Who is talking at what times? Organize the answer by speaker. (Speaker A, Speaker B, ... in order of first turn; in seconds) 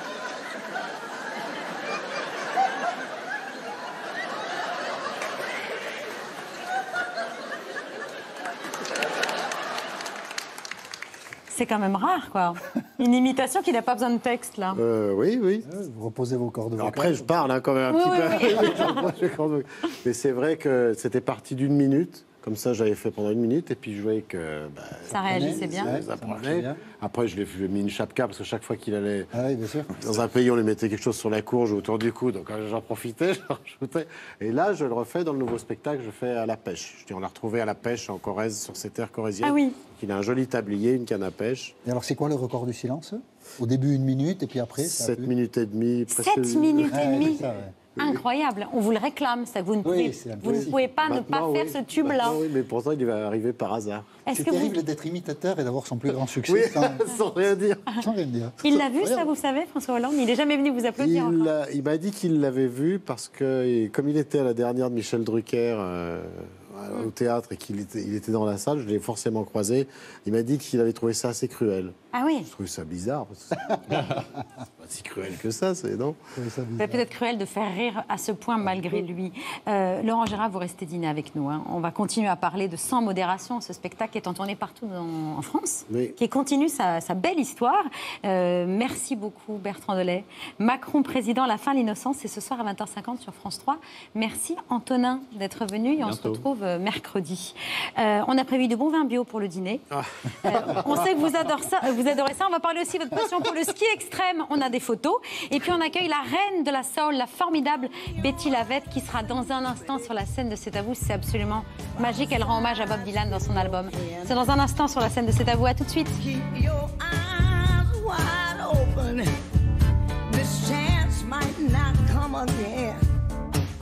Speaker A: 11.5-14.8, 17.9-19.1, 25.1-26.0, 39.4-39.8, 46.1-47.4, 47.9-52.4, 54.2-54.8, 58.6-61.5, 72.1-72.5, 76.8-99.8, 100.4-116.2
Speaker B: 14.7-15.7, 16.8-29.3, 29.9-41.8, 44.8-48.2, 50.4-54.2, 56.1-58.1, 58.7-59.3, 61.0-74.3, 74.8-76.2, 85.9-86.1, 96.0-96.4, 99.9-101.0
Speaker C: 15.6-17.3, 25.3-26.8, 29.3-29.9, 41.8-45.3, 46.9-47.8, 49.8-50.7, 54.3-57.0, 58.0-58.6, 76.3-77.0
Speaker D: 112.0-114.5, 116.2-119.3, 120.3-123.0